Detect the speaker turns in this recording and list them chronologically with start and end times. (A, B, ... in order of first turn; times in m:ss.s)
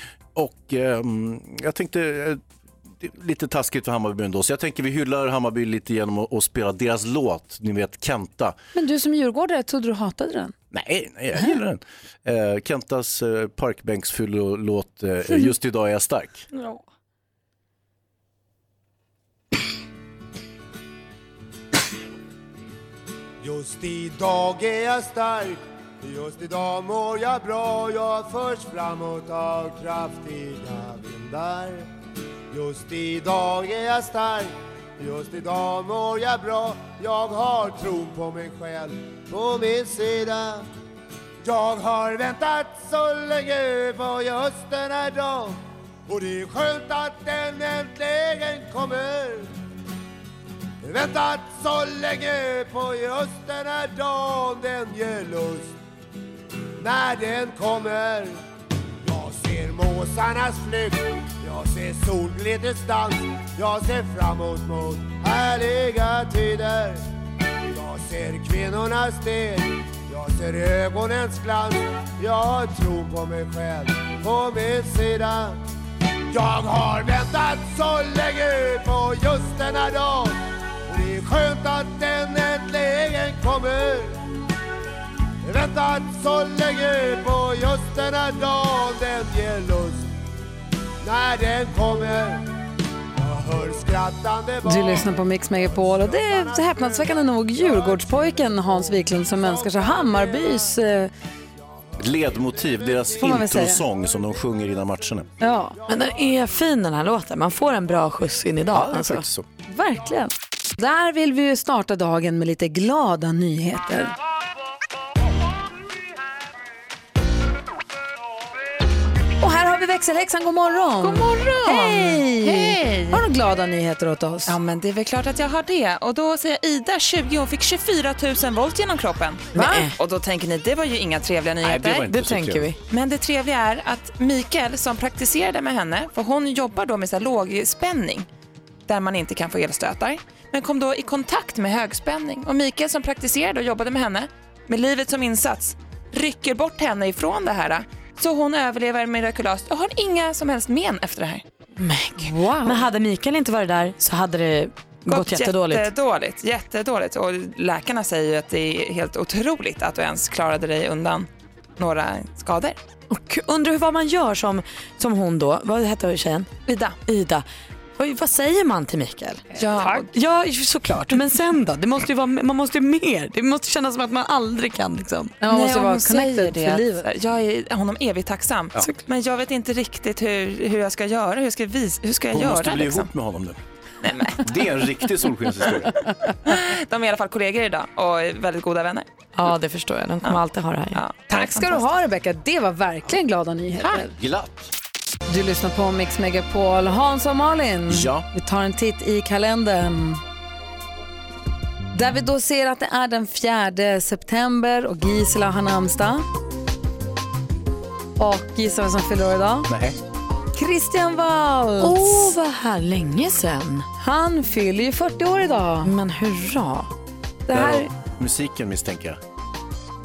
0:00.3-0:02.4 A
0:03.0-0:08.6 A
0:08.7-0:10.5 B
0:10.7-0:16.4 A
0:23.4-0:31.9 C
0:32.5-0:40.6 C
0:41.4-0:49.5 C
0:50.8-0:55.7 C
0:56.8-0:58.4 C
0:59.0-1:07.0 C
1:07.6-1:15.6 C
1:16.3-1:24.2 C
1:25.4-1:30.1 C
1:31.0-1:32.5 C
1:33.2-1:40.8 C
1:34.6-1:41.1 B
1:41.9-1:43.4 C
1:42.0-1:45.3 A
1:43.2-1:43.8 B
1:45.4-1:45.8 B
1:45.9-1:49.2 D
1:48.7-1:49.4 A
1:49.7-1:54.1 B
1:59.4-2:04.6 B
2:01.0-2:03.2 E
2:04.5-2:12.0 E
2:09.6-2:09.8 B
2:09.6-2:09.9 D
2:11.6-2:12.7 A
2:12.0-2:12.8 D
2:12.9-2:18.3 E
2:18.9-2:31.4 E
2:31.8-2:35.9 D
2:32.2-2:32.8 B
2:35.1-2:42.8 E
2:43.1-2:46.5 D
2:46.7-2:47.0 E
2:47.0-2:47.4 D
2:48.0-2:55.3 D
2:49.6-2:50.1 E
2:55.4-2:57.1 B
2:55.5-3:03.1 E
3:02.3-3:03.6 A
3:04.0-3:04.4 E
3:04.4-3:05.9 A
3:06.4-3:09.1 E
3:09.3-3:11.0 D
3:10.9-3:11.8 E
3:11.3-3:14.1 B
3:14.2-3:14.7 A
3:15.3-3:20.2 B
3:17.9-3:18.2 A
3:21.9-3:26.2 B
3:28.2-3:29.7 B
3:29.7-3:30.0 A
3:30.5-3:32.3 B
3:31.8-3:33.8 D
3:34.0-3:35.9 B
3:35.8-3:36.9 D
3:37.5-3:37.9 B
3:37.5-3:39.2 A